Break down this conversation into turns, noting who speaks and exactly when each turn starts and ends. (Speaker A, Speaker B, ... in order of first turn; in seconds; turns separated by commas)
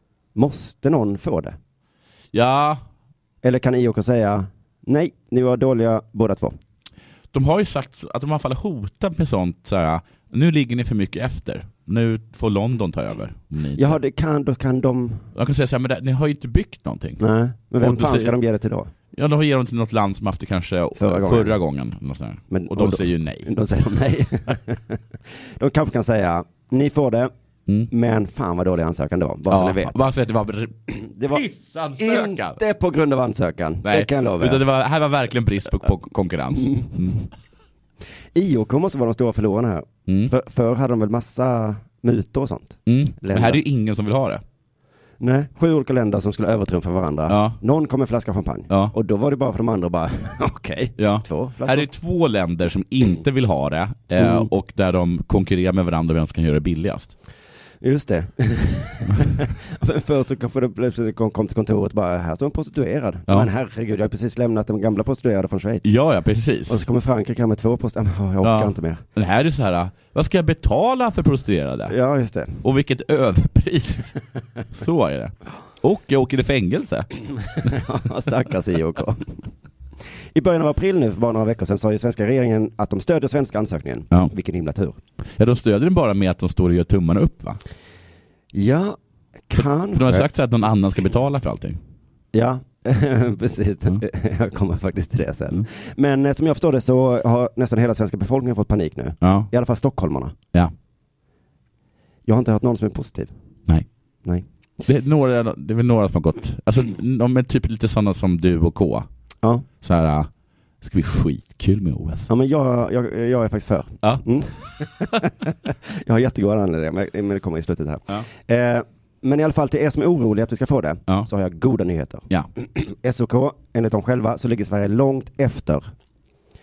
Speaker A: 0.3-1.6, Speaker B: 2.3-2.8, Speaker A: 3.4-6.5, Speaker B: 7.3-14.0, Speaker A: 13.8-15.3, Speaker B: 15.3-17.2, Speaker A: 17.2-18.9, Speaker B: 17.8-18.4, Speaker B: 19.1-23.5, Speaker A: 21.0-21.6, Speaker A: 22.5-27.3, Speaker A: 27.9-30.0, Speaker B: 29.5-32.6, Speaker A: 30.9-31.4, Speaker A: 32.0-34.6, Speaker B: 33.8-37.2, Speaker A: 36.6-37.2, Speaker A: 38.3-43.6, Speaker B: 40.1-40.3, Speaker B: 42.9-44.4, Speaker A: 45.2-51.9, Speaker B: 47.3-47.6, Speaker B: 48.7-48.9, Speaker B: 51.0-57.1, Speaker A: 54.2-54.5, Speaker A: 57.8-65.9, Speaker B: 65.8-66.8, Speaker A: 66.7-69.0, Speaker B: 68.4-71.9, Speaker A: 71.9-72.6, Speaker B: 72.6-74.2, Speaker B: 74.7-77.1, Speaker A: 77.6-79.4, Speaker A: 80.3-85.0, Speaker B: 85.4-87.6, Speaker A: 88.5-89.0, Speaker A: 89.5-90.3, Speaker B: 89.9-91.8, Speaker A: 92.3-100.3, Speaker B: 99.2-99.5, Speaker A: 102.2-103.3, Speaker B: 104.8-109.1, Speaker B: 109.8-110.3, Speaker B: 110.8-112.3, Speaker A: 112.3-125.9